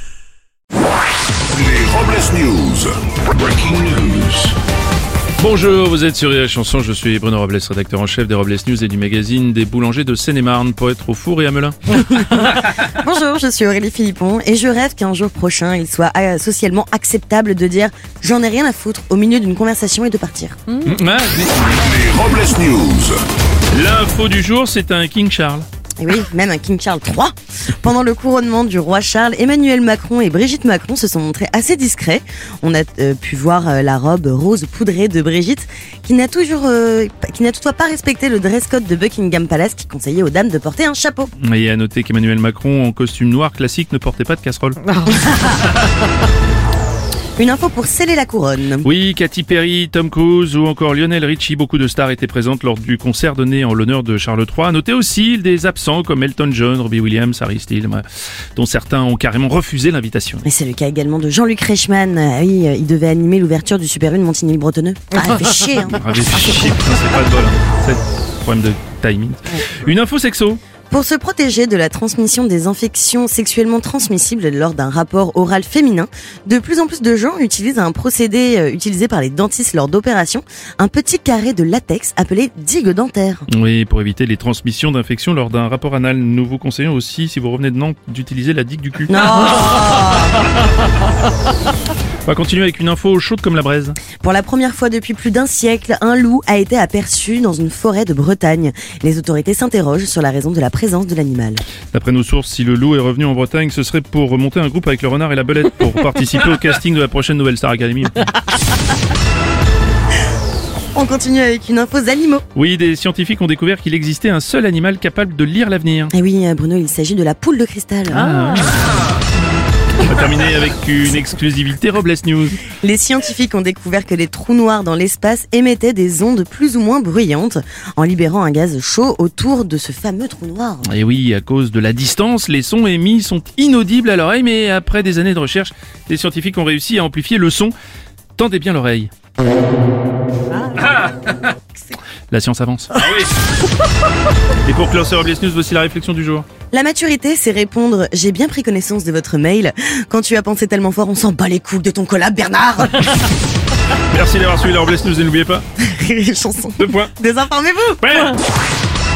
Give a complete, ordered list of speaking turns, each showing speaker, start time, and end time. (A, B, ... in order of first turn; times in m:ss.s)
0:01.5-0:04.5 A
0:05.4-0:12.5 B
0:12.2-0:20.8 C
0:20.8-0:21.8 B
0:21.8-0:23.2 A
0:23.7-0:25.7 B
0:26.0-0:41.3 C
0:41.4-0:44.8 B
0:45.0-0:45.5 C
0:47.4-0:48.9 C
0:48.8-0:58.0 B
0:58.6-1:00.4 B
1:00.4-1:06.2 C
1:05.8-1:10.6 B
1:10.9-1:23.5 C
1:23.5-1:30.2 B
1:29.1-1:30.4 C
1:32.3-1:34.0 B
1:34.2-1:41.6 C
1:41.9-1:48.3 B
1:51.0-1:52.4 C
1:52.6-1:56.1 B
1:56.1-1:58.3 C
1:58.1-1:59.0 B
2:00.0-2:02.6 B
2:02.7-2:10.9 C
2:10.9-2:17.7 B
2:18.4-2:19.1 B
2:20.8-2:21.1 B
2:22.3-2:23.3 B
2:24.6-2:26.5 B
2:26.7-2:33.3 C
2:34.1-2:35.6 B
2:35.8-2:38.3 C
2:36.8-2:37.1 B
2:38.0-2:38.4 B